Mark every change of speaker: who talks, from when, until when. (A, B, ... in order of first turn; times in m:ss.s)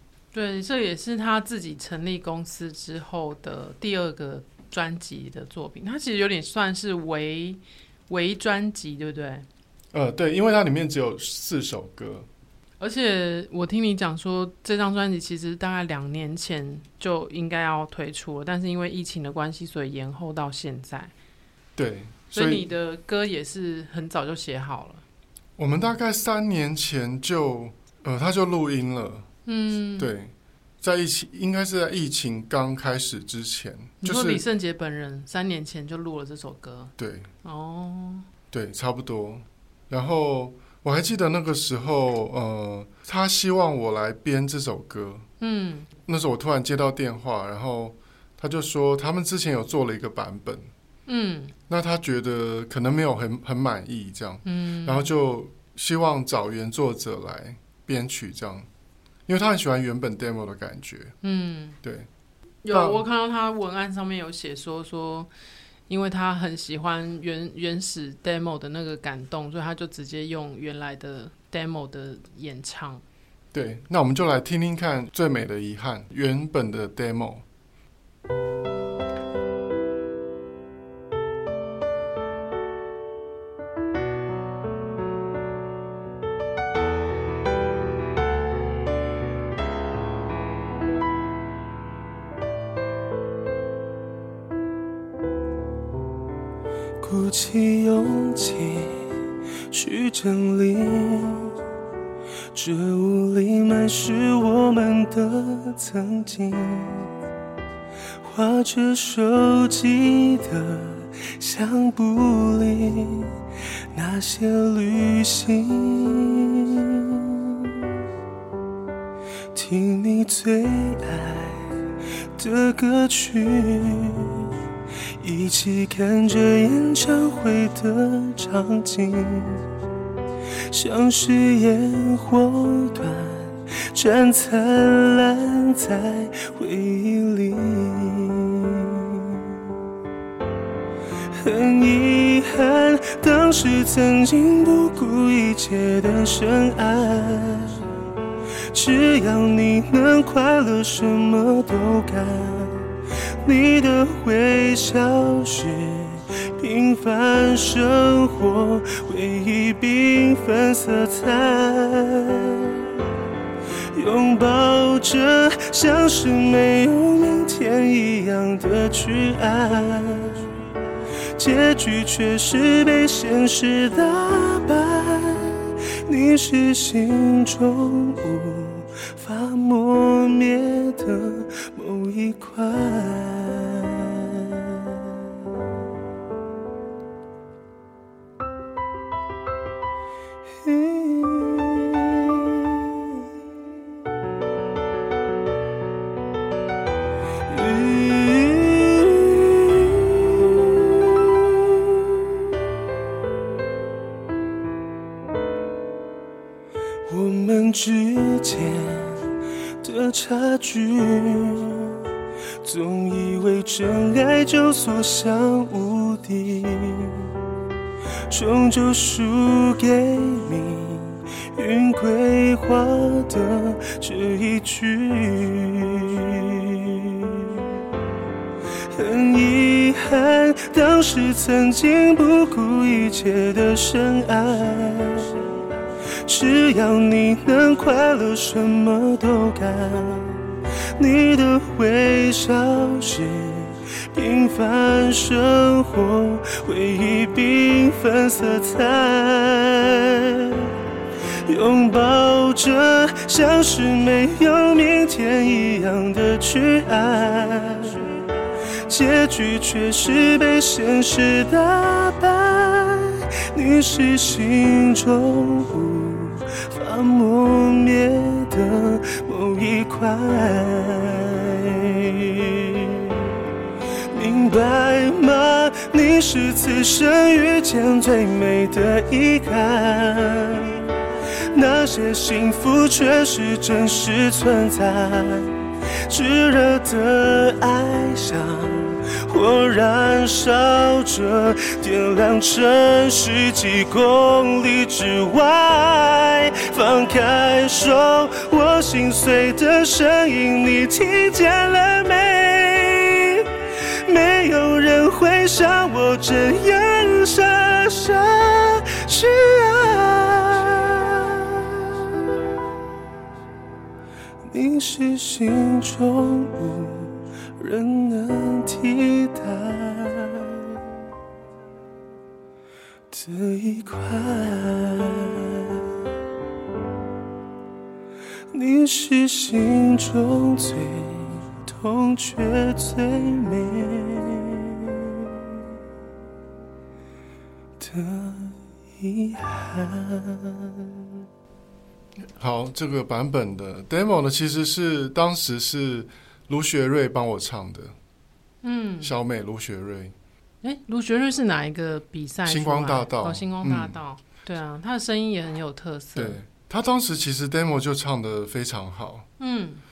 0:00.3-0:09.4 A
0:09.9-0:12.3 B
0:12.8-0:21.1 A
0:21.8-0:22.7 B
0:22.3-0:25.0 A
0:25.6-0:29.3 B
0:29.4-0:30.1 A
0:30.0-0:34.4 B
0:34.0-0:36.9 A
0:37.0-0:37.3 B
0:37.4-0:38.3 A
0:38.5-0:45.2 B
0:45.4-0:45.9 A
0:46.0-0:50.7 B
0:51.0-0:51.5 A
0:51.7-0:58.7 B
0:54.4-0:55.1 A
0:59.3-1:01.1 B
1:01.2-1:01.8 A
1:01.8-1:02.1 B
1:02.6-1:05.3 A
1:02.7-1:03.0 B
1:05.9-1:13.0 A
1:13.5-1:17.4 B
1:37.0-1:39.0 C
1:39.7-1:41.6 C
1:42.5-1:47.1 C
1:48.2-1:53.3 C
1:53.9-1:57.8 C
1:59.5-2:01.7 C
2:02.4-2:04.5 C
2:05.2-2:09.6 C
2:10.7-2:19.6 C
2:21.4-2:27.8 C
2:28.7-2:43.0 C
2:43.9-2:50.5 C
2:51.4-3:05.2 C
3:10.6-3:12.8 C
3:17.5-3:22.1 C
3:27.1-3:32.0 C
3:32.6-3:37.3 C
3:38.3-3:47.8 C
3:48.9-3:55.4 C
3:56.2-4:10.7 C
4:11.4-4:18.2 C
4:18.8-4:33.3 C
4:34.1-4:40.9 C
4:41.5-5:11.8 C
5:14.5-5:20.8 C
5:23.1-5:25.8 C
5:28.5-5:35.2 C
5:37.8-5:41.1 C
5:42.4-5:47.9 B
5:48.6-5:49.1 A
5:49.0-5:50.1 B
5:50.6-5:56.4 A
5:52.4-5:54.0 B
5:56.2-5:59.2 B
5:59.4-5:59.8 A